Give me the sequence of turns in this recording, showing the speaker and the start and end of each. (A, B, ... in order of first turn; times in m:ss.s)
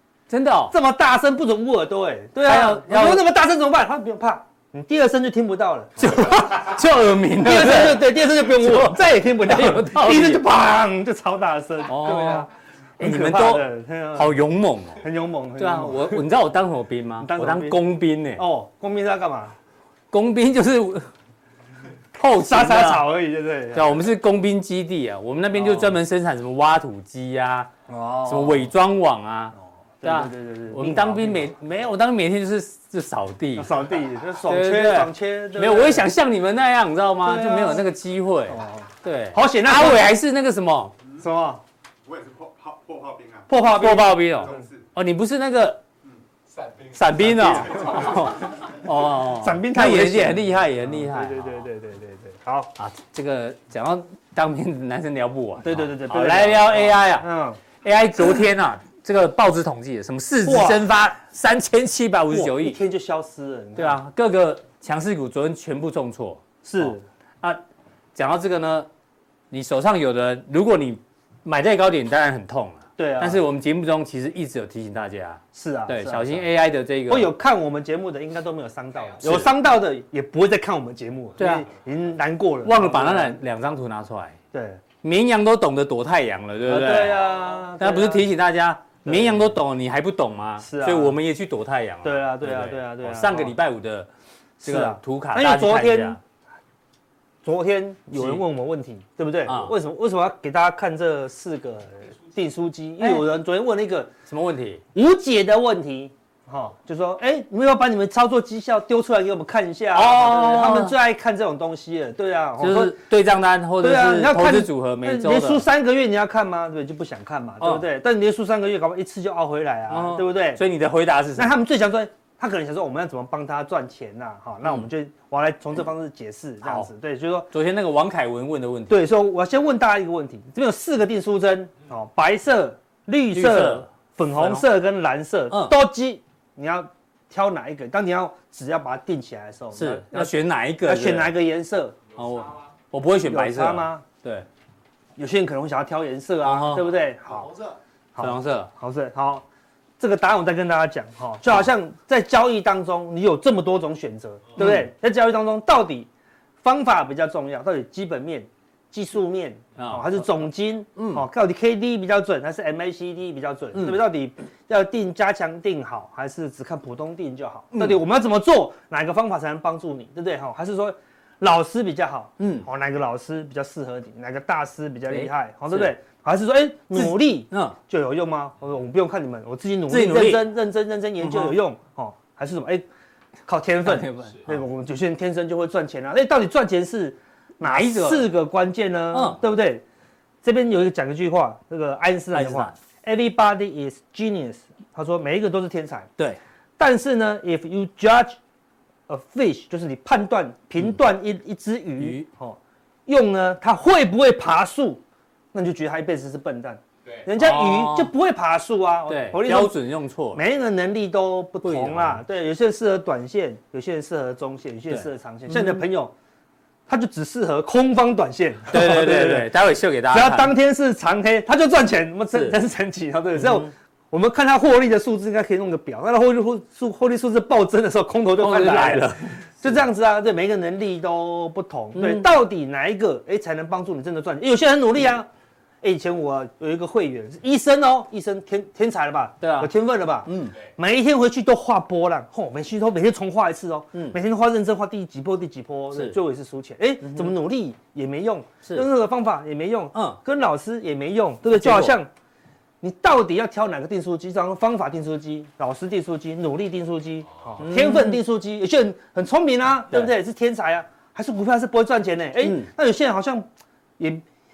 0:00.3-0:00.7 A
0:00.7-0:06.8 B
0:02.5-0:03.2 A
0:06.0-0:10.4 A
0:07.4-0:14.3 B
0:11.9-0:12.5 A
0:13.0-0:15.0 A
0:15.0-0:16.2 B
0:15.6-0:18.4 A
0:17.2-0:17.8 B
0:18.4-0:19.6 B
0:20.1-0:21.1 A
0:22.2-0:23.1 A
0:22.4-0:24.0 B
0:23.7-0:27.7 A
0:25.6-0:25.9 B
0:27.9-0:28.7 B
0:28.3-0:33.7 A
0:30.0-0:31.6 B
0:33.6-0:36.1 B
0:34.5-0:40.9 A
0:37.2-0:37.8 B
0:38.5-0:40.1 B
0:41.2-0:41.6 B
0:42.0-0:43.5 C
0:43.5-0:44.5 B
0:43.6-0:45.8 A
0:44.4-0:44.8 C
0:46.5-0:48.3 C
0:46.9-0:51.7 A
0:47.3-0:48.5 B
0:49.2-0:52.7 B
0:52.8-0:57.3 A
0:55.6-0:57.6 B
0:57.8-1:02.8 A
1:00.4-1:00.8 B
1:02.3-1:04.0 B
1:03.8-1:07.6 A
1:06.6-1:07.0 B
1:08.2-1:08.9 A
1:09.5-1:17.3 A
1:13.0-1:13.4 B
1:15.6-1:16.5 B
1:17.1-1:23.4 B
1:19.2-1:19.5 A
1:21.4-1:21.7 A
1:22.6-1:24.4 A
1:24.5-1:24.8 B
1:25.0-1:27.2 A
1:26.7-1:28.2 B
1:27.8-1:34.1 A
1:29.0-1:29.5 B
1:30.6-1:31.2 B
1:32.0-1:33.6 B
1:34.6-1:36.2 B
1:34.6-1:36.2 A
1:37.4-1:44.1 B
1:38.1-1:38.4 A
1:39.5-1:39.7 A
1:43.0-1:43.2 A
1:44.3-1:44.8 A
1:44.9-1:53.0 B
1:49.9-1:50.9 A
1:52.6-1:55.6 A
1:53.8-2:00.6 B
1:59.9-2:01.5 A
2:01.4-2:07.5 B
2:06.6-2:06.9 A
2:07.5-2:09.0 A
2:08.9-2:22.0 B
2:13.3-2:14.6 A
2:15.5-2:15.8 A
2:19.8-2:21.3 A
2:22.1-2:24.5 A
2:23.3-2:24.0 B
2:25.2-2:27.6 B
2:26.4-2:26.9 A
2:28.2-2:29.4 B
2:28.2-2:28.7 A
2:30.0-2:36.1 B
2:34.6-2:34.9 A
2:36.6-3:02.8 B
2:39.8-2:40.1 A
2:41.0-2:41.2 A
2:43.7-2:44.0 A
2:52.4-2:52.7 A
2:55.1-2:55.9 A
2:56.9-2:57.8 A
2:59.9-3:00.4 A
3:01.2-3:01.6 A
3:03.5-3:09.8 B
3:03.8-3:04.6 A
3:07.6-3:08.3 A
3:09.1-3:09.4 A
3:10.4-3:16.1 B
3:12.3-3:12.7 A
3:16.8-3:18.4 B
3:19.1-3:25.0 B
3:22.0-3:22.3 A
3:25.5-3:29.8 B
3:27.4-3:28.1 A
3:29.1-3:30.4 A
3:30.3-3:36.1 B
3:31.6-3:32.2 A
3:34.9-3:35.8 A
3:36.9-3:39.5 B
3:38.7-3:40.5 A
3:40.1-3:55.3 B
3:43.4-3:43.7 A
3:48.4-3:49.4 A
3:52.0-3:52.3 A
3:55.8-4:12.1 B
3:59.4-3:59.7 A
4:00.3-4:00.6 A
4:07.0-4:07.3 A
4:09.9-4:10.2 A
4:11.5-4:12.0 A
4:12.8-4:23.5 B
4:17.6-4:18.2 A
4:22.4-4:22.7 A